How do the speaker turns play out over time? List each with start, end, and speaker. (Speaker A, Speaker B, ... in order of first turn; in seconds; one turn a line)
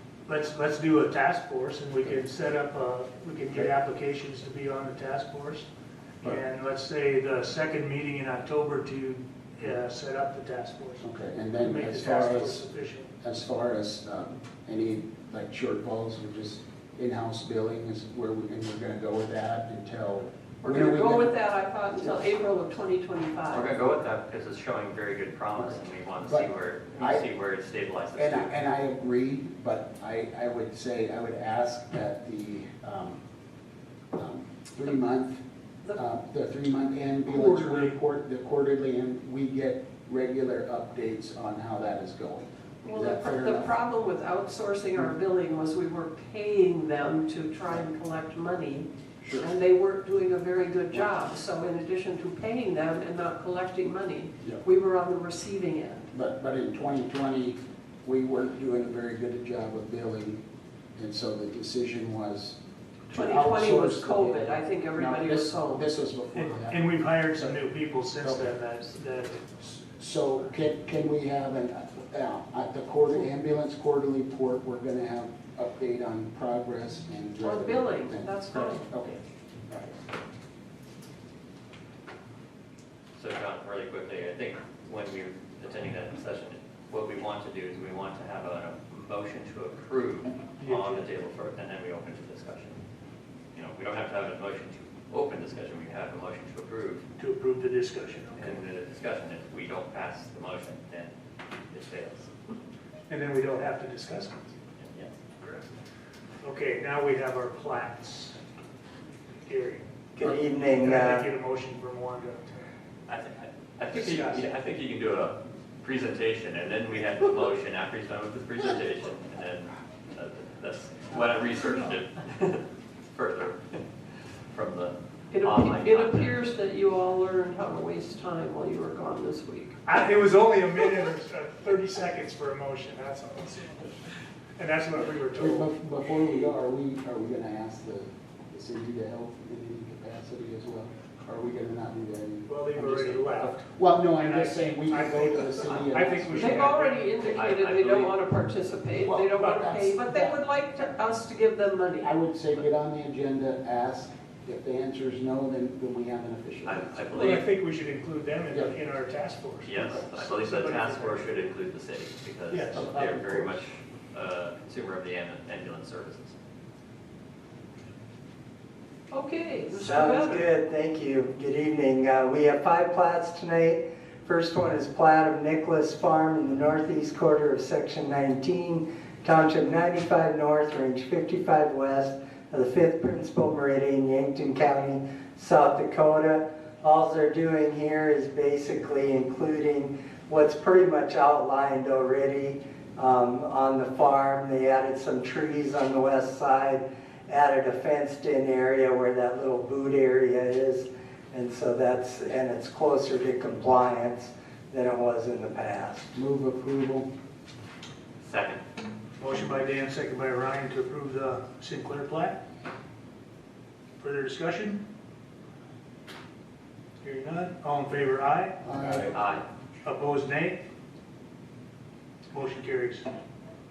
Speaker A: 0.3-5.6
Speaker A: 6.4-11.0
Speaker B: 11.0-12.6
Speaker A: 11.8-13.0
Speaker B: 13.2-21.3
Speaker C: 20.6-23.7
Speaker D: 23.5-28.5
Speaker B: 25.6-27.2
Speaker B: 28.1-33.2
Speaker B: 34.1-35.4
Speaker B: 35.9-43.7
Speaker C: 37.3-37.6
Speaker C: 42.8-56.0
Speaker B: 49.2-49.5
Speaker B: 56.1-60.4
Speaker B: 61.0-62.6
Speaker C: 63.1-65.9
Speaker B: 63.1-66.8
Speaker A: 66.4-69.8
Speaker B: 70.0-79.9
Speaker C: 77.4-78.9
Speaker D: 83.2-92.8
Speaker A: 90.6-91.0
Speaker D: 93.5-97.0
Speaker A: 97.2-98.5
Speaker D: 98.4-101.1
Speaker D: 101.7-102.3
Speaker A: 103.1-104.5
Speaker D: 104.8-105.1
Speaker A: 106.4-108.4
Speaker A: 109.4-112.7
Speaker E: 110.2-111.3
Speaker D: 113.1-123.8
Speaker A: 113.9-114.5
Speaker D: 124.5-126.4
Speaker C: 125.3-129.8
Speaker A: 129.9-133.9
Speaker A: 134.6-135.6
Speaker B: 135.3-146.7
Speaker A: 142.5-143.6
Speaker A: 144.2-146.9
Speaker C: 146.3-152.1
Speaker D: 147.2-148.1
Speaker B: 149.0-150.4
Speaker B: 152.0-156.9
Speaker D: 156.6-157.5
Speaker A: 157.1-161.2
Speaker D: 159.6-166.3
Speaker B: 162.7-163.6
Speaker C: 169.1-170.5
Speaker E: 169.8-206.1
Speaker B: 206.1-207.1
Speaker D: 208.2-208.6
Speaker A: 209.2-212.4
Speaker A: 214.0-214.8
Speaker A: 217.0-219.0
Speaker B: 218.6-219.2
Speaker D: 219.1-219.4
Speaker A: 219.8-220.6
Speaker A: 222.3-223.0